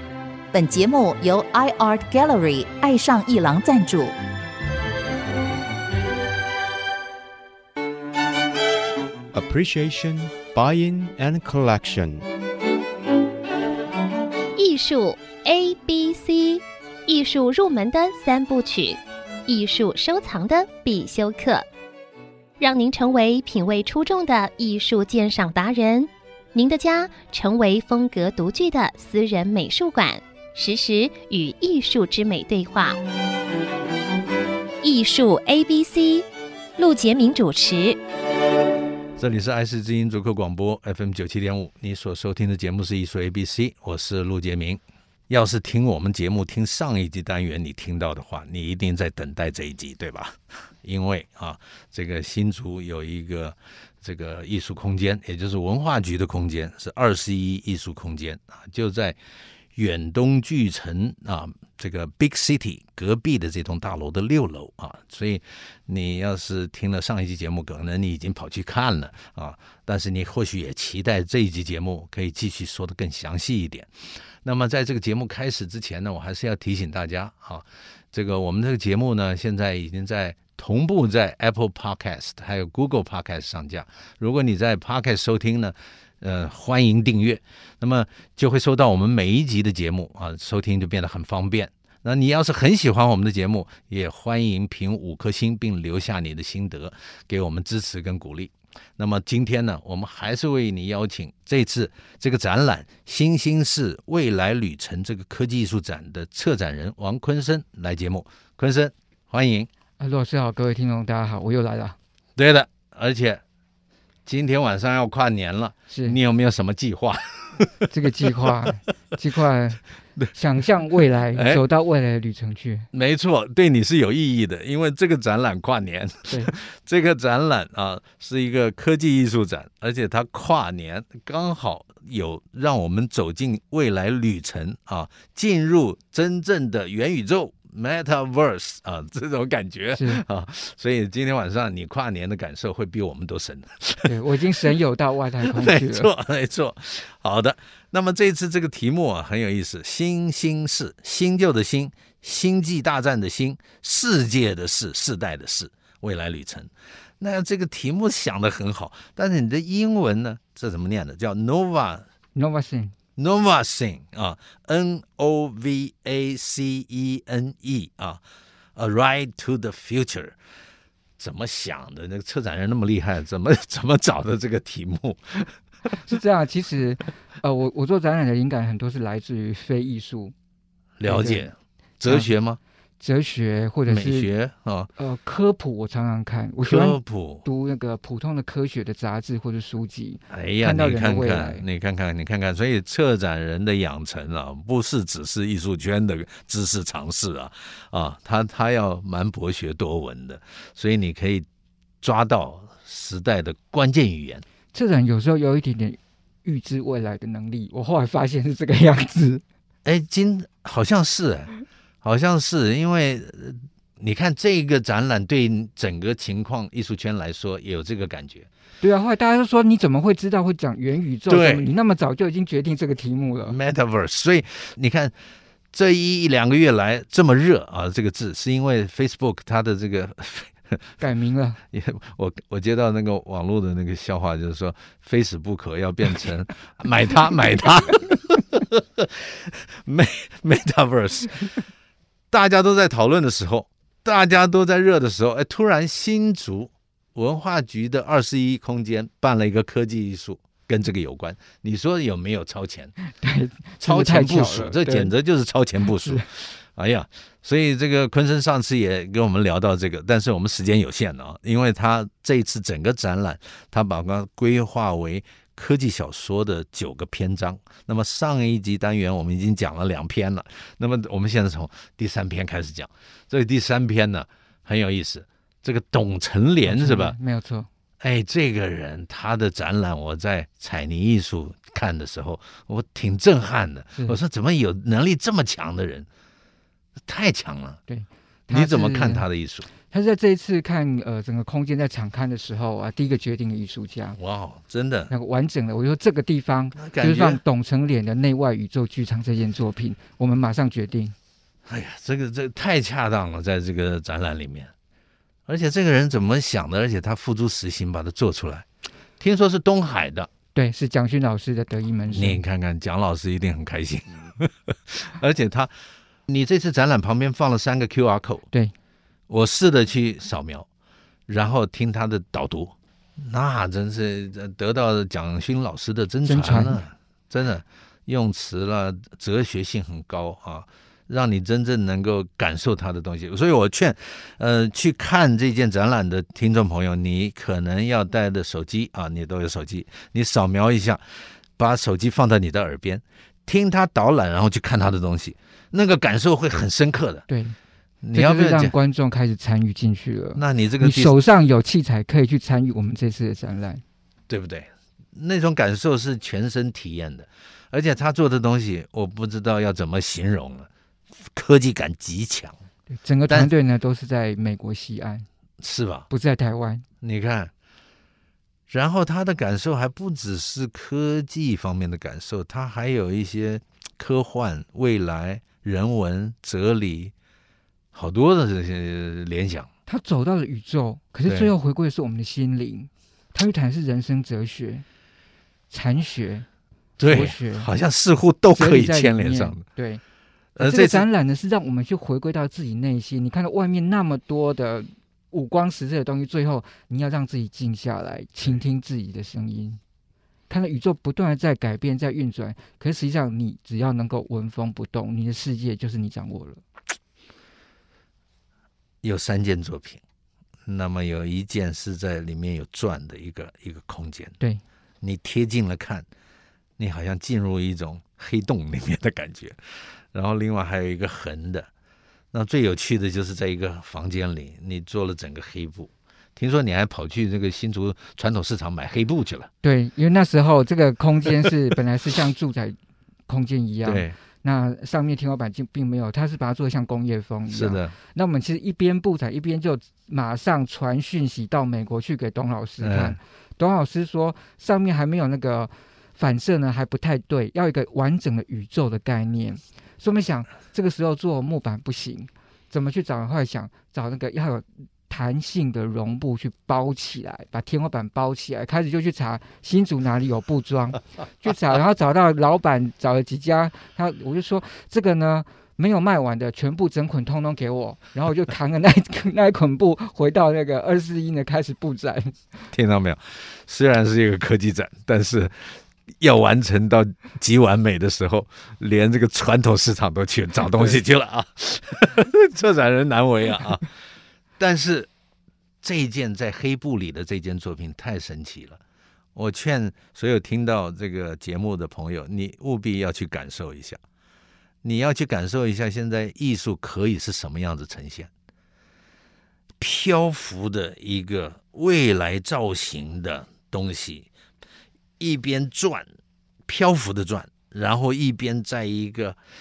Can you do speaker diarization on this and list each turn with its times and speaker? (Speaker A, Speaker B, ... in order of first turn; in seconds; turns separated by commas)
Speaker A: 0.5-4.1, Speaker B: 9.3-12.2, Speaker C: 14.6-21.6, Speaker C: 22.6-33.0, Speaker C: 34.8-36.2, Speaker C: 36.8-38.0, Speaker D: 39.2-59.2, Speaker D: 59.7-109.7, Speaker E: 110.0-112.0, Speaker D: 112.3-113.4, Speaker D: 114.2-117.9, Speaker E: 115.9-116.2, Speaker E: 117.9-119.8, Speaker E: 120.3-122.9, Speaker D: 121.3-121.6, Speaker D: 122.9-144.1, Speaker E: 126.3-126.5, Speaker E: 139.9-140.2, Speaker E: 144.0-146.1, Speaker D: 145.4-162.1, Speaker E: 162.3-162.9, Speaker D: 163.2-168.2, Speaker D: 168.8-170.4, Speaker D: 171.2-175.5, Speaker E: 176.0-180.3, Speaker D: 181.0-182.6, Speaker E: 181.0-181.5, Speaker E: 182.0-182.3, Speaker E: 183.0-184.3, Speaker D: 183.9-184.9, Speaker E: 185.0-191.6, Speaker D: 186.6-187.4, Speaker D: 190.3-201.4, Speaker D: 202.0-204.4, Speaker E: 204.7-209.4, Speaker D: 209.8-218.5, Speaker E: 218.8-223.6, Speaker D: 221.3-221.7, Speaker D: 223.4-225.1, Speaker D: 225.7-230.8, Speaker E: 231.0-231.6, Speaker D: 231.7-241.5, Speaker D: 242.3-252.9, Speaker E: 253.1-255.1, Speaker D: 253.8-277.1, Speaker E: 255.8-256.2, Speaker E: 276.6-277.7, Speaker D: 278.0-286.1, Speaker D: 287.1-287.8, Speaker E: 287.9-289.2, Speaker D: 288.5-289.7, Speaker E: 289.8-294.2, Speaker D: 294.2-295.1, Speaker E: 295.1-301.1, Speaker D: 296.8-297.4, Speaker D: 301.6-304.7, Speaker D: 305.5-308.6, Speaker D: 309.2-310.3, Speaker E: 310.5-312.4, Speaker D: 312.1-315.7, Speaker D: 316.3-318.5, Speaker D: 319.3-320.7, Speaker D: 321.3-347.2, Speaker E: 326.2-326.8, Speaker E: 347.3-347.6, Speaker D: 348.0-348.7, Speaker E: 348.1-353.8, Speaker D: 350.4-351.2, Speaker D: 354.3-362.6, Speaker E: 362.9-365.2, Speaker D: 365.6-366.1, Speaker E: 366.1-366.8, Speaker D: 367.0-367.5, Speaker D: 368.7-377.1, Speaker D: 377.9-379.7, Speaker E: 379.9-384.8, Speaker D: 381.2-381.5, Speaker E: 385.7-386.4, Speaker D: 387.0-389.6, Speaker E: 387.0-387.7, Speaker E: 388.5-390.0, Speaker D: 390.6-391.1, Speaker E: 390.6-399.8, Speaker E: 400.5-406.6, Speaker D: 409.0-410.0, Speaker D: 410.6-414.3, Speaker D: 415.0-416.1, Speaker D: 416.8-419.6, Speaker D: 420.1-421.7, Speaker D: 422.3-429.5, Speaker E: 429.6-432.8, Speaker E: 433.3-472.4, Speaker D: 433.8-434.1, Speaker D: 437.5-437.9, Speaker D: 442.8-443.2, Speaker D: 472.7-483.9, Speaker D: 484.6-485.1, Speaker D: 485.8-488.8, Speaker D: 489.3-494.0, Speaker D: 494.8-498.3, Speaker D: 499.8-504.3, Speaker D: 505.2-506.1, Speaker D: 506.6-509.4